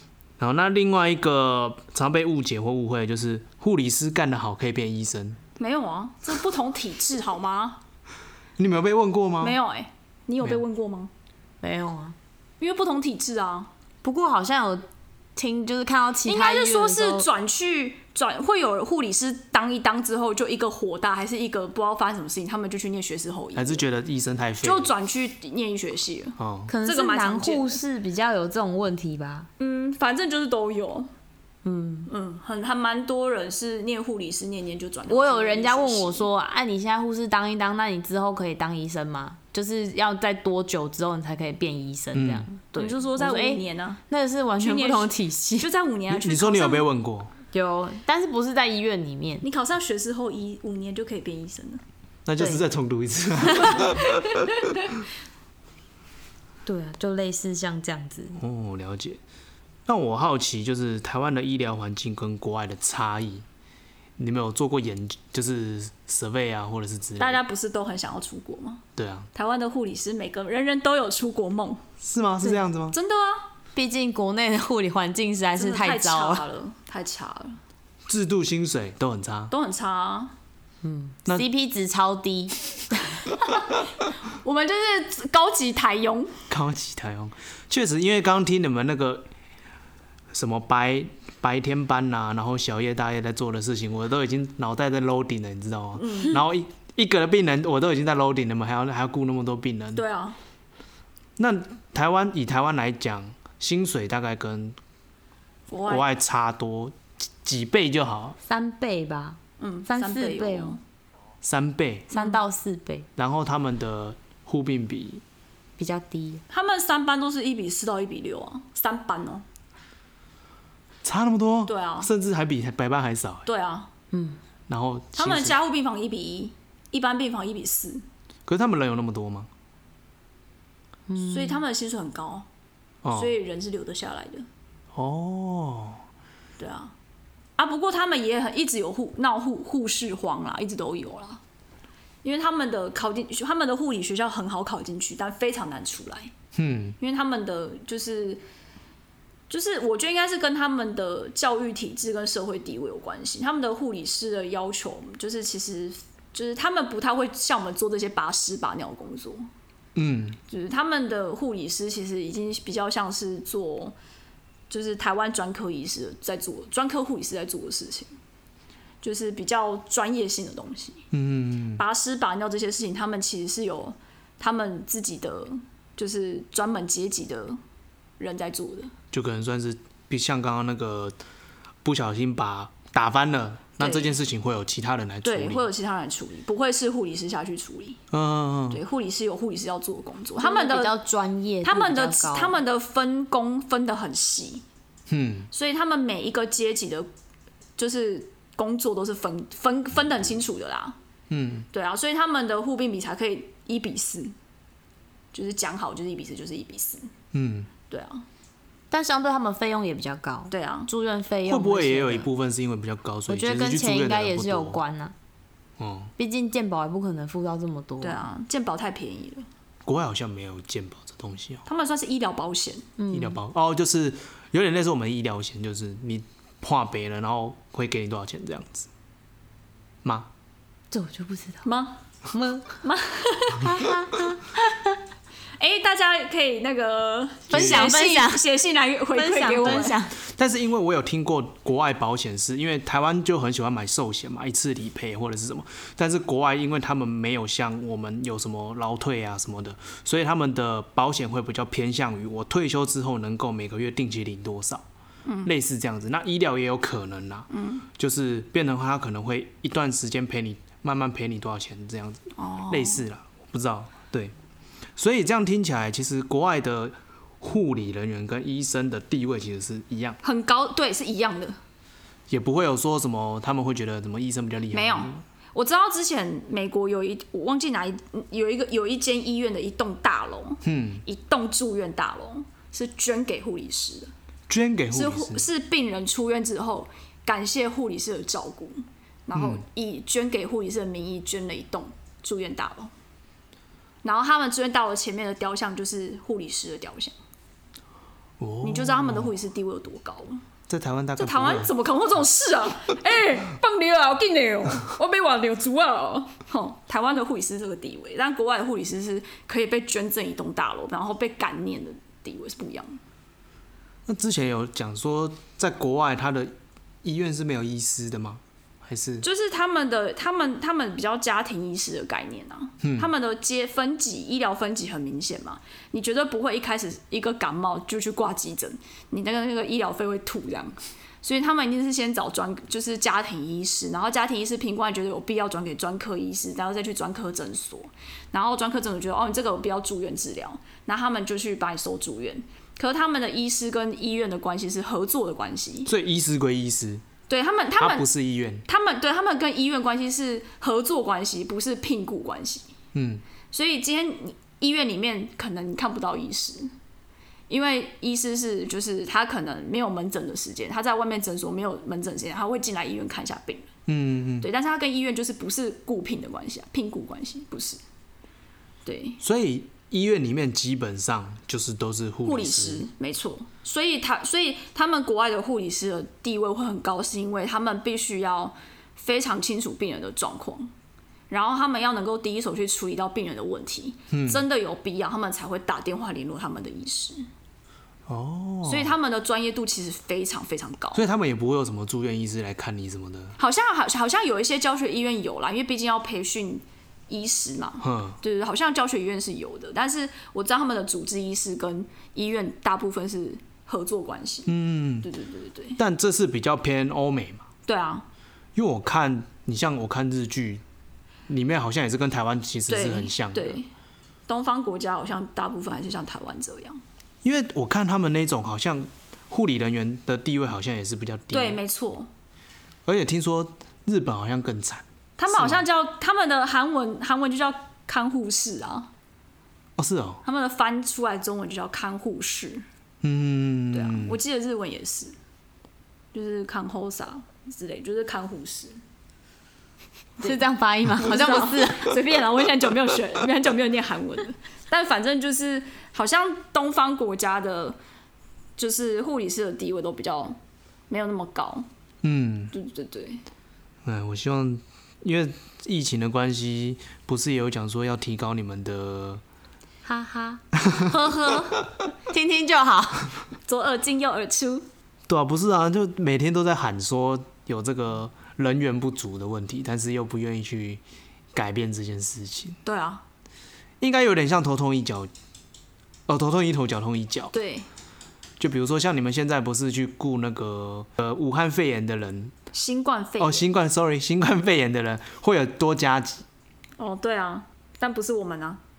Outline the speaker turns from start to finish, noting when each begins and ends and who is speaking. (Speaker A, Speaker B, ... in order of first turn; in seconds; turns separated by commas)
Speaker A: 0.4-5.4, Speaker B: 5.6-7.8, Speaker A: 8.6-9.6, Speaker B: 9.4-11.1, Speaker C: 11.6-12.2, Speaker B: 12.6-13.7, Speaker C: 14.0-14.8, Speaker C: 15.3-17.3, Speaker B: 16.2-23.8, Speaker A: 23.5-24.9, Speaker B: 24.6-27.8, Speaker A: 26.4-26.7, Speaker C: 26.7-29.5, Speaker B: 29.6-31.1, Speaker C: 31.6-32.1, Speaker B: 32.1-36.2, Speaker C: 35.1-45.7, Speaker A: 42.1-42.5, Speaker B: 42.8-44.0, Speaker B: 44.6-46.8, Speaker A: 46.1-47.3, Speaker C: 47.5-49.4, Speaker B: 49.4-51.8, Speaker A: 52.2-54.4, Speaker C: 56.6-58.4, Speaker A: 58.4-59.2, Speaker A: 59.9-63.5, Speaker A: 64.2-67.4, Speaker B: 67.2-68.8, Speaker A: 69.0-69.3, Speaker B: 69.3-71.8, Speaker A: 72.0-72.9, Speaker B: 72.9-73.5, Speaker C: 73.7-76.4, Speaker B: 75.6-77.6, Speaker A: 78.1-79.5, Speaker B: 79.5-80.3, Speaker C: 80.8-82.6, Speaker B: 84.3-86.3, Speaker A: 86.5-89.3, Speaker A: 90.3-100.0, Speaker B: 96.0-96.4, Speaker B: 99.9-100.4, Speaker A: 101.4-104.8, Speaker B: 105.7-106.1, Speaker A: 105.9-108.4, Speaker C: 108.5-110.8, Speaker B: 109.6-110.8, Speaker A: 111.4-112.1, Speaker C: 112.1-113.1, Speaker A: 113.2-115.2, Speaker C: 115.8-116.4, Speaker B: 116.5-119.4, Speaker A: 121.0-123.5, Speaker B: 121.7-122.1, Speaker B: 123.5-123.9, Speaker C: 124.1-124.4, Speaker A: 124.7-125.5, Speaker B: 125.1-128.0, Speaker A: 128.5-129.5, Speaker C: 131.1-131.6, Speaker B: 131.2-132.4, Speaker A: 133.0-133.3, Speaker B: 133.1-134.4, Speaker A: 134.9-136.0, Speaker B: 136.6-136.9, Speaker B: 137.6-141.4, Speaker B: 142.2-146.3, Speaker A: 146.5-146.9, Speaker B: 147.0-148.4, Speaker B: 149.5-159.4, Speaker A: 159.9-160.4, Speaker B: 160.5-163.9, Speaker B: 164.7-168.1, Speaker B: 169.0-171.1, Speaker A: 171.1-171.8, Speaker B: 171.8-177.6, Speaker B: 178.2-178.9, Speaker A: 179.1-181.2, Speaker A: 181.8-185.7, Speaker B: 183.8-184.2, Speaker B: 185.2-188.0, Speaker A: 188.1-188.8, Speaker B: 188.7-191.0, Speaker C: 190.4-192.5, Speaker B: 191.6-194.6, Speaker A: 195.1-195.5, Speaker B: 195.5-197.1, Speaker B: 197.8-201.0, Speaker A: 201.3-201.7, Speaker B: 201.7-204.3, Speaker B: 205.3-207.1, Speaker A: 207.3-207.7, Speaker B: 207.9-208.2, Speaker C: 208.9-212.3, Speaker B: 210.5-210.9, Speaker A: 211.5-214.8, Speaker C: 213.3-215.1, Speaker A: 215.8-216.1, Speaker C: 216.2-218.2, Speaker B: 218.0-219.4, Speaker A: 219.8-221.6, Speaker B: 221.7-222.9, Speaker C: 223.0-223.4, Speaker A: 223.1-228.9, Speaker A: 230.0-230.3, Speaker C: 230.9-231.7, Speaker B: 231.6-232.0, Speaker C: 232.3-232.8, Speaker B: 232.8-233.8, Speaker C: 233.6-234.4, Speaker B: 235.6-240.0, Speaker C: 237.5-238.4, Speaker A: 237.5-237.9, Speaker C: 239.1-240.1, Speaker A: 239.7-254.8, Speaker B: 255.2-255.5, Speaker A: 255.4-264.3, Speaker B: 257.5-257.9, Speaker B: 262.4-263.0, Speaker A: 264.9-270.2, Speaker B: 270.2-271.6, Speaker A: 272.3-275.2, Speaker B: 274.7-284.1, Speaker A: 280.6-281.0, Speaker A: 284.5-285.4, Speaker B: 284.9-292.9, Speaker A: 289.3-289.6, Speaker B: 294.0-297.1, Speaker A: 298.4-299.3, Speaker B: 298.6-300.4, Speaker A: 300.7-301.7, Speaker B: 301.2-313.0, Speaker A: 314.1-319.2, Speaker B: 319.2-345.9, Speaker A: 322.8-323.1, Speaker A: 345.9-347.0, Speaker B: 347.3-348.1, Speaker A: 347.8-348.6, Speaker B: 348.6-352.7, Speaker A: 352.9-353.2, Speaker B: 353.5-356.7, Speaker B: 357.5-363.7, Speaker A: 363.9-364.5, Speaker B: 364.4-367.8, Speaker B: 368.9-369.2, Speaker A: 369.2-372.8, Speaker B: 372.2-380.7, Speaker B: 381.3-387.3, Speaker A: 384.1-384.4, Speaker A: 388.1-388.9, Speaker B: 388.6-391.0, Speaker A: 390.9-393.4, Speaker B: 393.4-405.8, Speaker A: 397.8-398.2, Speaker A: 404.5-405.1, Speaker A: 405.8-407.4, Speaker B: 407.6-408.1, Speaker A: 408.5-410.6, Speaker A: 411.3-413.6, Speaker B: 412.7-413.7, Speaker B: 414.3-416.8, Speaker A: 417.2-421.6, Speaker B: 421.3-422.1, Speaker A: 422.9-425.6, Speaker B: 425.2-428.9, Speaker A: 429.8-430.2, Speaker B: 430.2-432.6, Speaker A: 433.0-434.2, Speaker B: 433.7-435.1, Speaker B: 436.1-438.8, Speaker C: 440.2-441.9, Speaker B: 441.0-447.8, Speaker B: 448.6-450.4, Speaker B: 450.9-451.6, Speaker A: 452.0-452.5, Speaker B: 452.5-453.2, Speaker A: 453.8-459.2, Speaker C: 459.8-461.5, Speaker C: 462.1-463.1, Speaker B: 463.5-464.6, Speaker A: 465.1-470.8, Speaker A: 471.3-472.6, Speaker B: 472.6-473.0, Speaker A: 473.8-475.1, Speaker A: 476.1-477.3, Speaker B: 477.3-477.7, Speaker A: 478.4-482.3, Speaker B: 482.5-483.4, Speaker A: 483.2-486.2, Speaker B: 486.8-488.6